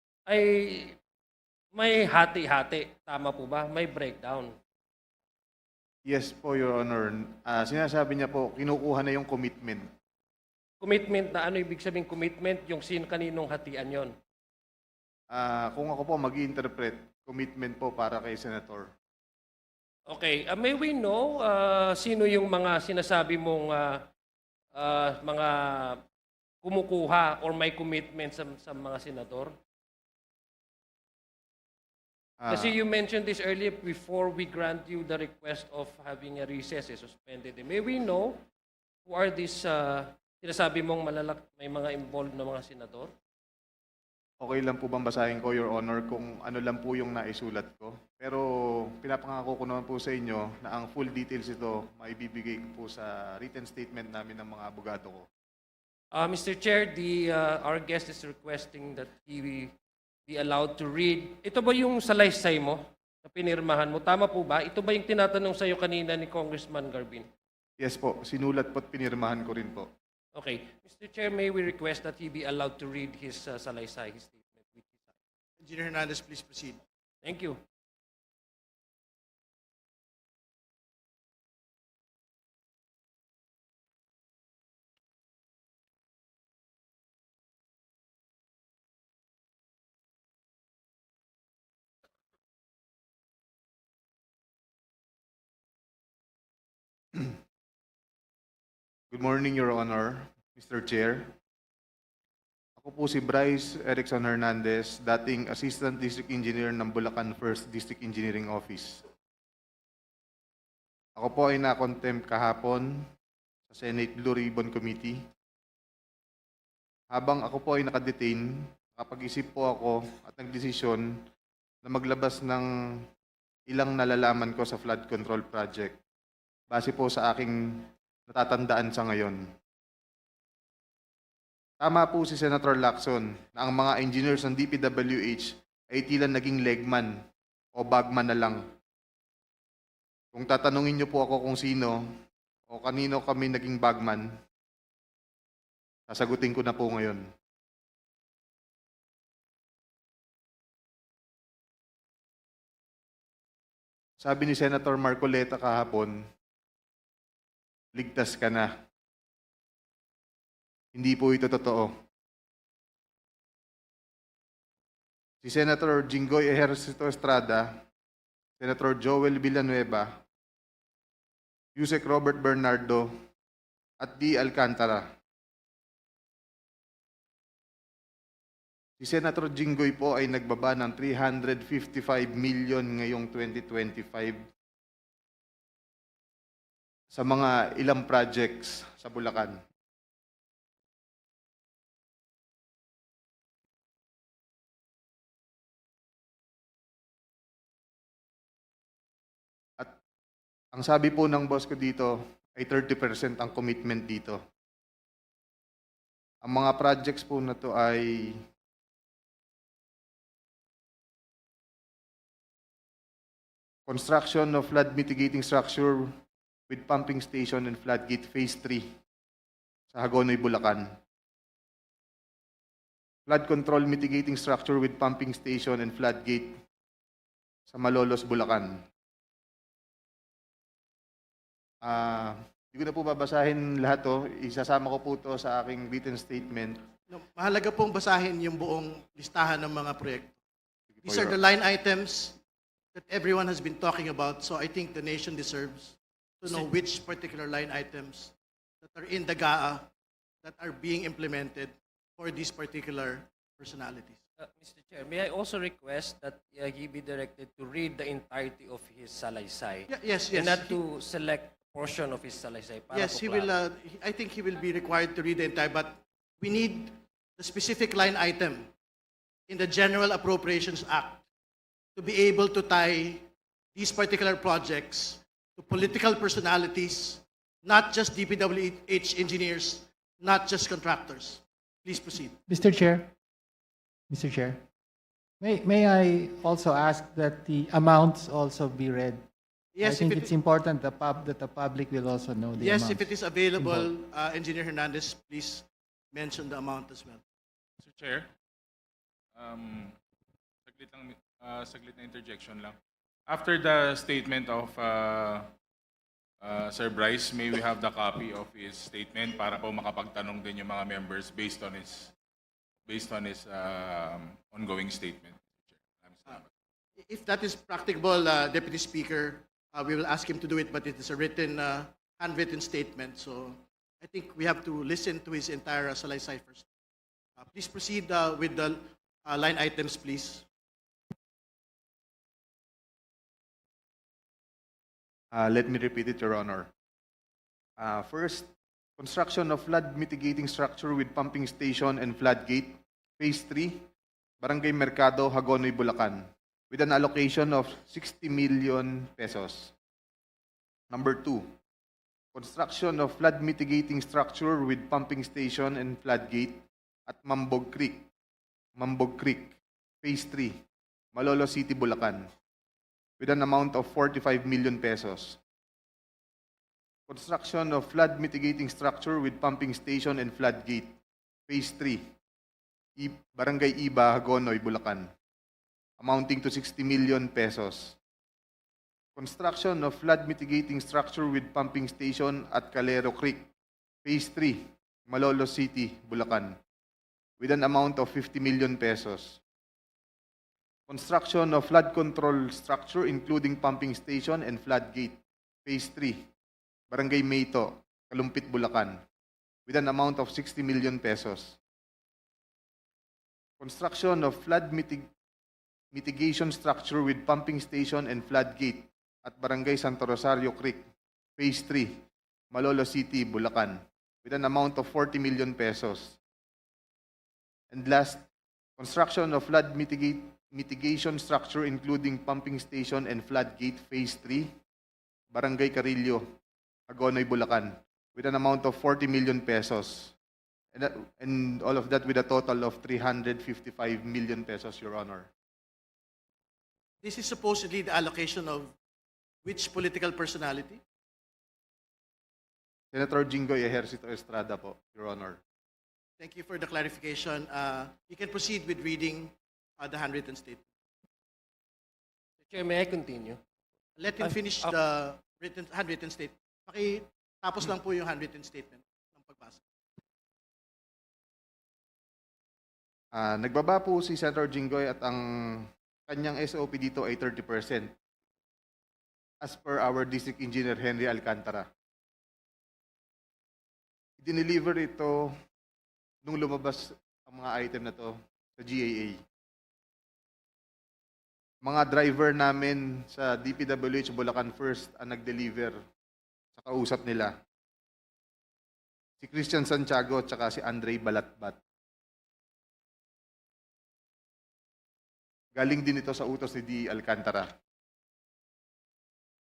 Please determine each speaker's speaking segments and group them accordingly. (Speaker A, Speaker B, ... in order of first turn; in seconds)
Speaker A: 0.3-1.0, 1.7-4.5, 10.8-14.1, 20.1-24.0, 24.7-26.0, 26.6-29.5, 32.5-38.4, 39.0-43.1, 56.1-59.7, 60.3-67.3, 70.3-75.1, 77.2-77.6, 254.4-263.5, 452.4-453.4, 454.2-454.7
Speaker B: 6.0-9.9, 15.3-18.9, 32.4-32.7, 44.4-55.2, 67.8-69.9, 99.1-101.3, 102.8-109.0, 111.2-113.0, 113.7-115.2, 117.1-121.1, 121.8-123.0, 123.7-126.0, 126.7-129.4, 131.8-137.2, 137.8-138.6, 140.3-142.0, 142.7-144.3, 146.1-147.2, 154.2-156.2, 157.9-158.7, 160.9-161.9, 165.4-167.8, 168.6-170.2, 171.8-173.1, 174.0-175.1, 179.0-184.4, 187.1-189.6, 200.7-204.4, 206.4-208.4, 213.9-216.1, 216.7-218.9, 219.9-220.9, 223.3-226.6, 227.7-228.8, 231.8-236.8, 240.9-241.3, 335.3-336.7, 337.8-343.9, 344.4-349.7, 350.9-351.5, 352.3-358.1, 358.8-360.6, 361.1-362.3, 363.2-365.4, 367.1-371.0, 371.5-372.0, 373.0-375.1, 376.0-378.0, 379.1-383.5, 384.0-386.6, 387.4-389.4, 390.9-396.2, 396.9-399.0, 399.7-401.6, 403.6-405.1, 405.9-410.8, 411.4-412.0, 412.5-416.2, 417.7-418.2, 418.8-424.5, 425.3-426.2, 426.9-430.1, 430.7-435.3, 442.9-445.4, 463.1-467.9, 469.4-471.7, 474.2-475.3, 476.2-479.2, 481.6-485.8, 486.5-487.3, 489.2-491.6, 495.5-497.5
Speaker C: 75.6-76.8, 237.1-240.4, 241.0-242.4, 242.9-249.9, 250.4-254.2, 259.9-260.8, 262.9-268.7, 269.5-271.2, 271.9-282.4, 289.7-290.3, 292.5-297.2, 317.0-326.7, 327.4-330.4, 437.0-438.7, 439.4-440.8, 446.2-450.7, 454.0-459.6
Speaker D: 282.5-283.1, 284.1-284.6, 285.4-289.2, 289.8-293.9
Speaker E: 297.8-298.3, 299.3-300.0, 300.6-302.8, 303.3-305.5, 306.4-312.1, 312.9-316.5